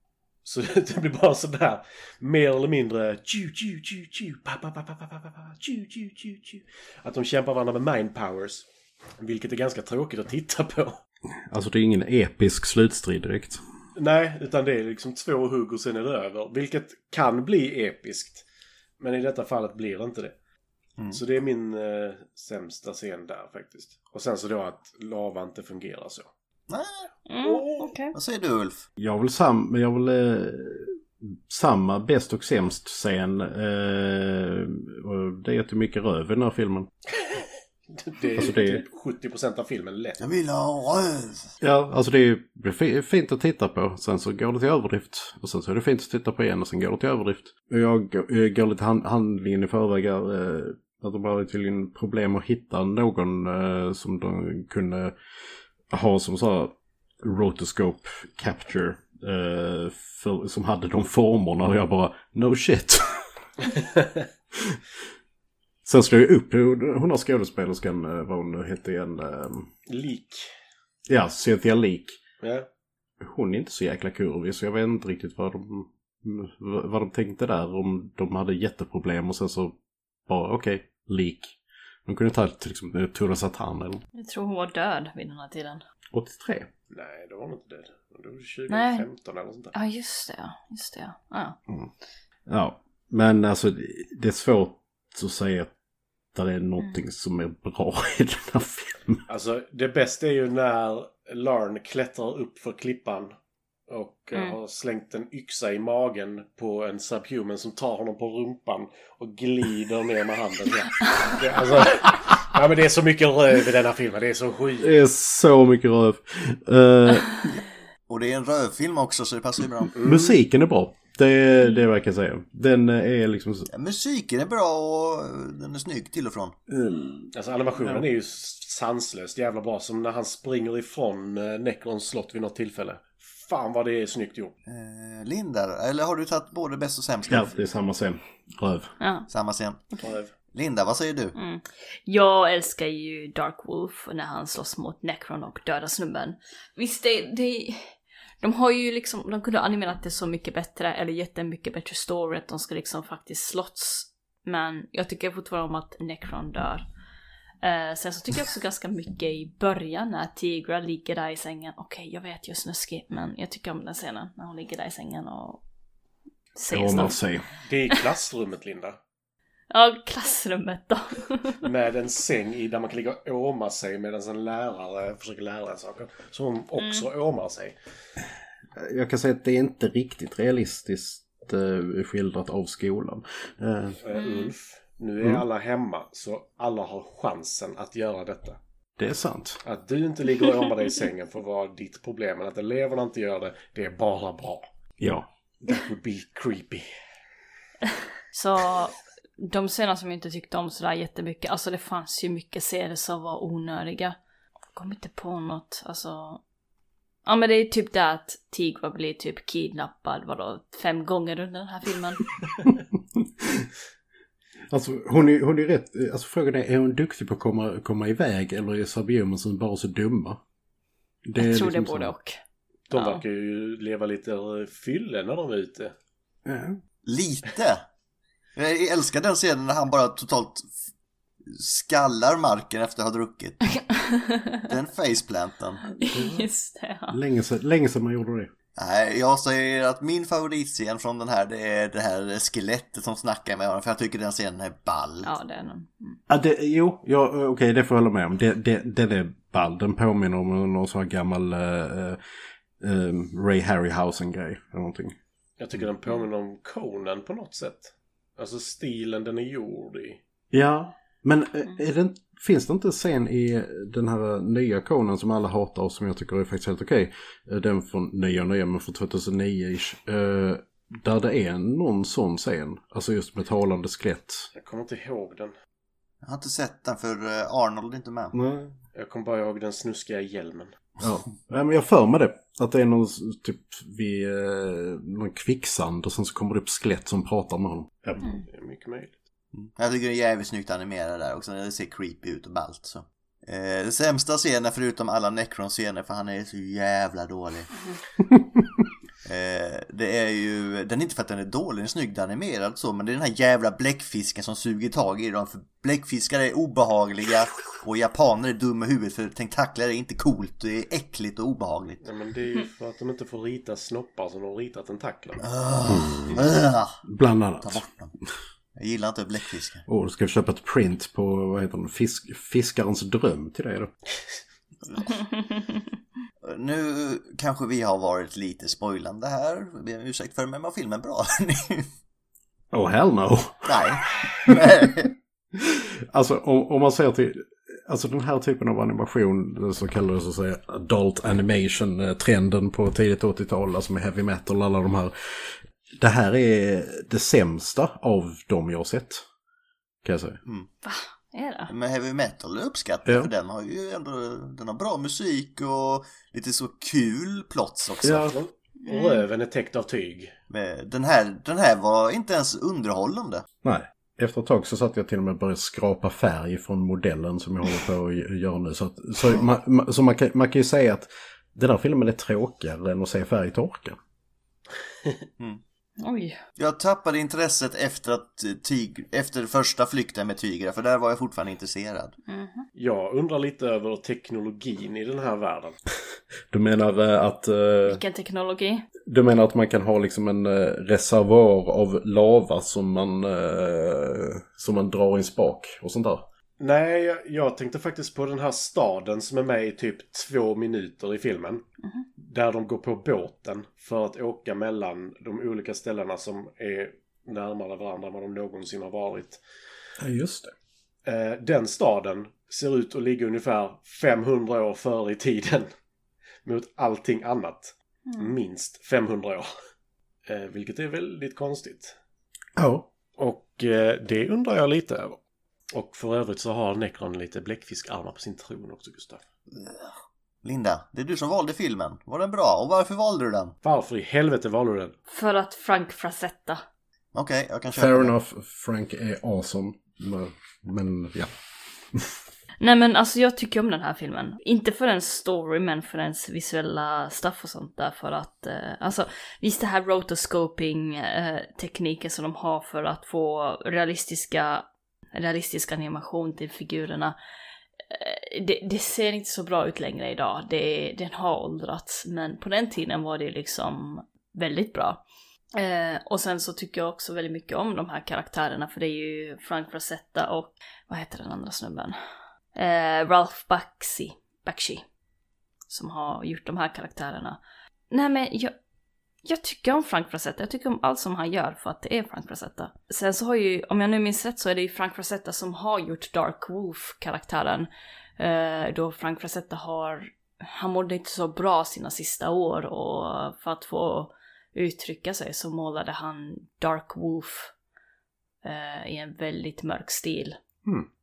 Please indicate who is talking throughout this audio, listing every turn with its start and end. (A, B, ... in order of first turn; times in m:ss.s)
0:00.4-0:08.6 A
0:09.2-0:11.0 A
0:11.5-0:13.6 B
0:14.0-0:18.4 A
0:19.0-0:20.3 A
0:21.1-0:26.3 A
0:26.7-0:27.1 C
0:27.3-0:28.1 D
0:27.4-0:27.9 A
0:28.1-0:28.8 C
0:29.0-0:36.9 B
0:37.1-0:40.2 A
0:38.3-0:38.8 B
0:40.2-0:41.5 C
0:41.6-0:55.1 B
0:55.9-1:03.3 B
1:04.5-1:04.8 B
1:05.8-1:09.7 B
1:09.9-1:10.5 A
1:11.1-1:12.2 B
1:12.4-1:12.7 A
1:13.2-1:19.7 B
1:20.3-1:24.0 B
1:24.1-1:25.8 D
1:26.1-1:26.7 B
1:26.9-1:29.7 A
1:28.7-1:29.1 D
1:29.7-1:31.6 D
1:32.5-1:35.7 B
1:36.3-1:39.2 B
1:39.3-1:43.3 A
1:43.9-1:54.9 A
1:54.8-1:57.5 B
1:57.5-1:59.9 C
1:59.9-2:00.4 A
2:00.0-2:03.7 B
2:03.7-2:06.6 C
2:06.7-2:08.0 B
2:07.3-2:14.5 A
2:14.7-2:17.5 C
2:17.3-2:18.9 B
2:19.0-2:19.3 D
2:19.3-2:19.8 C
2:20.0-2:20.3 A
2:20.5-2:21.4 C
2:21.4-2:36.8 D
2:37.6-2:45.6 D
2:46.6-2:47.2 D
2:46.7-2:47.4 B
2:47.6-2:49.0 A
2:49.7-2:51.6 D
2:51.6-2:57.8 A
2:56.8-2:57.0 D
2:58.8-3:04.0 B
3:04.0-3:08.6 A
3:04.1-3:04.5 D
3:09.0-3:09.6 B
3:09.6-3:14.6 A
3:15.0-3:15.3 B
3:15.6-3:16.8 A
3:18.3-3:24.2 D
3:24.7-3:26.4 D
3:27.2-3:32.2 D
3:33.1-3:33.7 B
3:34.7-3:40.4 B
3:41.2-3:42.1 B
3:41.4-3:42.4 D
3:42.9-3:45.9 A
3:42.9-3:43.2 D
3:46.4-3:46.8 B
3:47.0-3:47.8 C
3:48.6-3:50.7 C
3:51.4-3:53.8 C
3:53.8-3:54.6 D
3:54.6-3:55.9 C
3:55.9-3:57.2 D
3:56.1-3:56.5 B
3:57.1-3:58.5 B
3:58.8-4:05.3 C
4:05.2-4:06.2 D
4:06.3-4:12.2 B
4:12.8-4:15.2 B
4:15.6-4:20.2 A
4:20.5-4:34.5 B
4:34.5-4:35.5 A
4:36.2-4:38.3 C
4:38.3-4:38.8 B
4:38.9-4:40.7 A
4:41.0-4:48.2 B
4:48.4-4:49.1 A
4:49.5-4:57.7 C
4:57.7-4:58.0 D
4:58.3-4:58.6 B
4:59.2-5:12.0 C
5:12.0-5:15.4 A
5:15.4-5:17.0 C
5:15.8-5:16.4 B
5:17.0-5:17.8 B
5:17.6-5:18.1 C
5:18.8-5:19.8 C
5:19.9-5:23.9 B
5:24.8-5:25.2 C
5:26.4-5:31.9 C
5:32.7-5:34.9 B
5:33.6-5:35.1 C
5:35.5-5:49.2 B
5:50.0-5:50.4 B
5:50.8-5:51.7 D
5:51.7-5:58.4 C
5:53.0-5:53.3 B
5:58.0-5:58.4 B
5:58.2-6:00.3 A
5:58.8-5:59.2 D
6:00.5-6:03.4 C
6:03.6-6:14.0 B
6:16.0-6:16.4 D
6:16.6-6:22.2 C
6:22.3-6:22.7 D
6:22.8-6:25.8 A
6:26.5-6:28.0 B
6:27.8-6:28.8 D
6:29.0-6:36.2 B
6:36.6-6:41.6 A
6:42.2-6:49.4 A
6:50.0-6:50.5 B
6:51.0-6:55.7 A
6:56.4-6:59.5 A
6:58.1-6:58.3 D
7:00.3-7:02.0 A
7:02.6-7:02.9 B
7:03.2-7:05.2 A
7:05.7-7:09.2 A
7:09.6-7:09.9 C
7:10.4-7:13.6 C
7:13.6-7:15.0 A
7:15.1-7:16.6 D
7:17.1-7:18.1 C
7:17.7-7:21.3 B
7:21.9-7:22.2 B
7:22.6-7:37.1 D
7:37.9-7:52.0 D
7:52.5-7:54.8 D
7:55.7-7:57.4 D
7:57.9-7:58.5 D
7:59.2-8:17.5 D
8:18.4-8:20.4 D